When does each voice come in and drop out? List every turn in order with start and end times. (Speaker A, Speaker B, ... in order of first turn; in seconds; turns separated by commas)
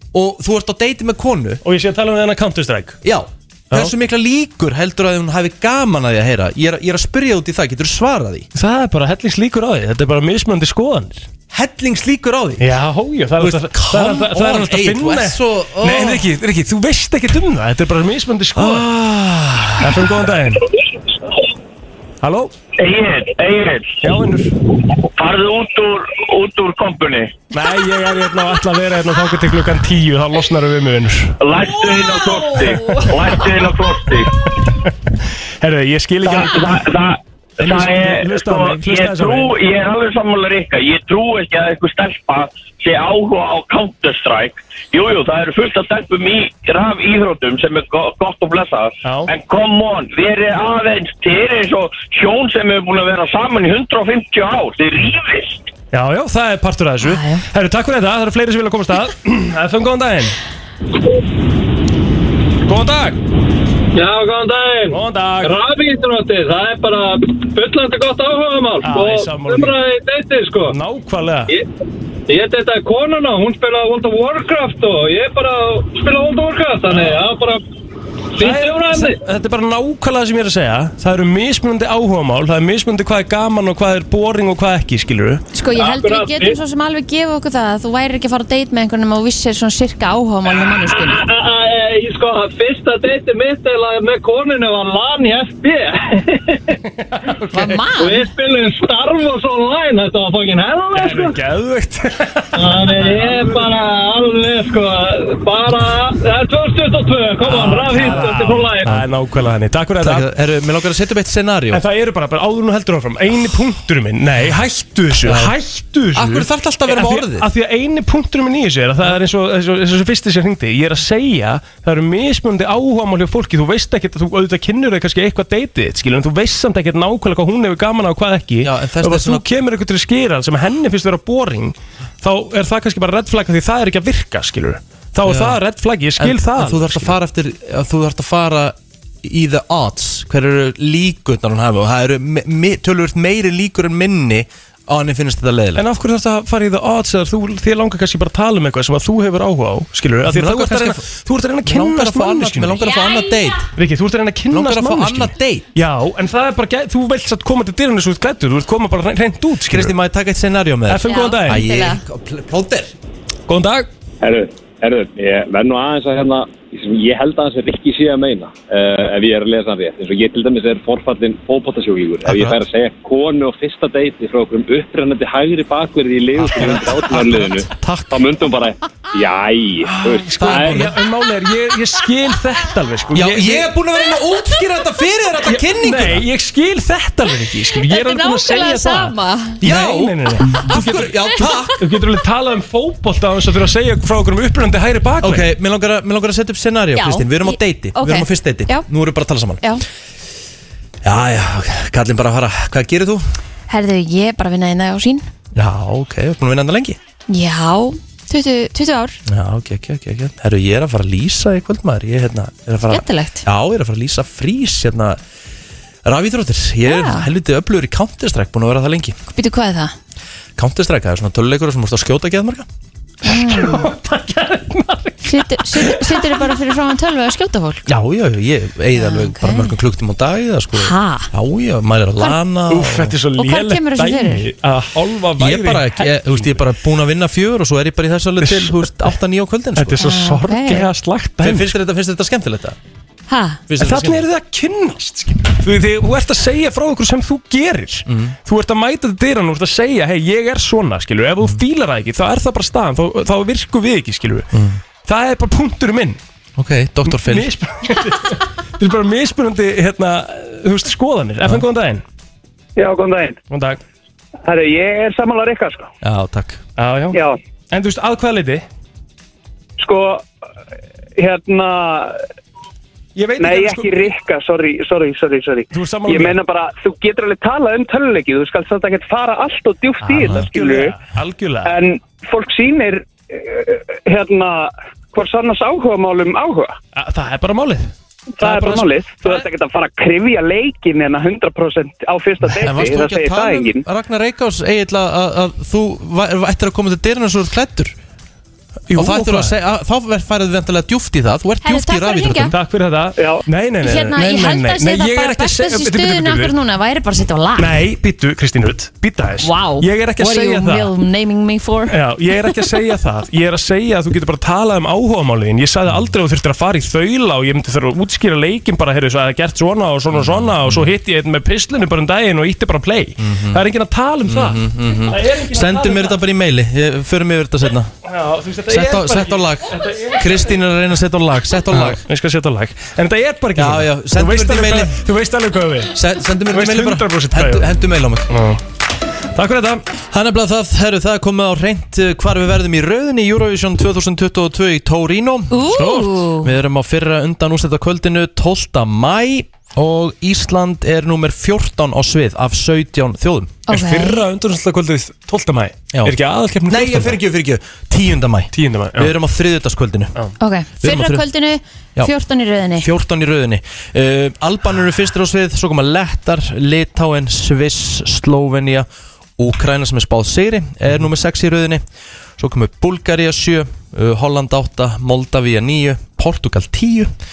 Speaker A: 0.1-1.6, Speaker B: 1.6-3.0, Speaker A: 3.0-8.5, Speaker B: 8.5-11.2, Speaker A: 11.5-12.7, Speaker B: 12.6-18.9, Speaker A: 13.4-16.3, Speaker A: 18.6-20.1, Speaker B: 19.8-20.6, Speaker B: 22.2-22.5, Speaker C: 22.8-24.0, Speaker B: 24.0-24.5, Speaker C: 25.1-27.4, Speaker B: 27.5-31.4, Speaker C: 31.4-34.3, Speaker B: 32.6-33.7, Speaker B: 34.4-34.9, Speaker B: 35.6-36.8, Speaker C: 36.2-55.6, Speaker B: 37.6-39.5, Speaker B: 49.0-49.3, Speaker B: 55.9-60.4, Speaker D: 57.0-57.4, Speaker B: 62.7-63.2, Speaker E: 64.0-70.7, Speaker B: 64.9-65.6, Speaker B: 68.8-69.8, Speaker B: 70.7-71.5, Speaker E: 72.3-77.6, Speaker B: 76.9-77.2, Speaker B: 78.4-85.4, Speaker E: 78.4-79.2, Speaker D: 85.5-91.2, Speaker E: 85.8-86.5, Speaker E: 91.0-96.6, Speaker B: 97.2-97.8, Speaker D: 97.5-98.3, Speaker E: 98.0-101.3, Speaker B: 100.9-103.7, Speaker E: 102.5-108.9, Speaker B: 107.4-110.3, Speaker A: 110.0-111.8, Speaker B: 111.7-137.1, Speaker A: 115.2-115.5, Speaker A: 116.1-117.5, Speaker A: 128.6-129.4, Speaker A: 135.2-135.6, Speaker A: 136.2-145.8, Speaker B: 145.8-152.8, Speaker A: 150.2-151.0, Speaker A: 151.6-153.7, Speaker D: 152.8-153.5, Speaker B: 153.8-159.9, Speaker A: 154.5-155.7, Speaker A: 159.7-162.9, Speaker B: 160.9-161.7, Speaker D: 161.0-162.0, Speaker B: 163.5-163.9, Speaker F: 164.2-180.9, Speaker A: 172.2-172.6, Speaker A: 176.3-178.1, Speaker A: 180.0-180.9, Speaker B: 180.1-183.7, Speaker A: 183.1-186.2, Speaker B: 185.5-195.5, Speaker D: 187.8-189.6, Speaker A: 189.6-191.8, Speaker A: 195.2-199.6, Speaker D: 196.9-198.8, Speaker A: 201.0-203.2, Speaker D: 203.7-205.2, Speaker A: 205.5-207.0, Speaker D: 207.3-209.2, Speaker A: 209.2-215.2, Speaker D: 212.9-213.4, Speaker A: 216.0-219.1, Speaker D: 216.8-217.3, Speaker D: 219.3-219.9, Speaker A: 220.6-222.7, Speaker D: 223.2-223.8, Speaker B: 223.3-226.5, Speaker D: 225.2-227.8, Speaker A: 227.8-233.2, Speaker D: 229.0-229.7, Speaker D: 230.8-231.3, Speaker B: 232.7-236.6, Speaker D: 233.4-234.4, Speaker A: 235.4-240.0, Speaker B: 238.4-238.9, Speaker B: 239.8-241.7, Speaker D: 240.0-240.9, Speaker A: 241.4-242.8, Speaker D: 243.3-243.6, Speaker A: 243.7-244.2, Speaker B: 243.8-254.5, Speaker A: 248.1-248.3, Speaker A: 254.5-254.8, Speaker B: 255.1-256.2, Speaker A: 256.6-257.5, Speaker B: 257.1-262.0, Speaker G: 262.8-263.4, Speaker B: 263.5-263.8, Speaker G: 264.4-265.9, Speaker A: 266.0-266.6, Speaker B: 266.8-267.2, Speaker B: 267.7-268.6, Speaker G: 269.8-270.2, Speaker G: 271.2-272.2, Speaker B: 273.2-274.1, Speaker G: 273.4-280.9, Speaker B: 275.7-276.4, Speaker B: 280.0-281.8, Speaker G: 281.6-286.7, Speaker B: 286.9-289.5, Speaker G: 288.4-293.8, Speaker A: 292.6-297.9, Speaker B: 298.9-299.5, Speaker A: 298.9-302.5, Speaker D: 301.6-302.5, Speaker B: 302.5-306.5, Speaker G: 303.2-303.4, Speaker D: 303.8-307.8, Speaker B: 307.6-310.9, Speaker D: 309.4-311.9, Speaker B: 311.9-326.2, Speaker A: 320.1-320.9, Speaker A: 323.2-323.6, Speaker A: 324.3-327.9, Speaker B: 328.1-330.6, Speaker A: 328.7-332.0, Speaker B: 331.7-335.9, Speaker A: 333.6-334.9, Speaker A: 335.9-338.3, Speaker B: 336.5-337.8, Speaker B: 338.3-338.6, Speaker B: 339.3-339.8, Speaker A: 340.1-353.6, Speaker D: 345.5-346.5, Speaker B: 345.7-346.3, Speaker D: 353.7-354.2, Speaker B: 353.7-357.2, Speaker A: 356.7-360.1, Speaker B: 358.5-359.1, Speaker D: 360.4-362.9, Speaker A: 360.8-361.2, Speaker A: 362.8-368.9, Speaker A: 369.4-371.8, Speaker A: 372.4-377.1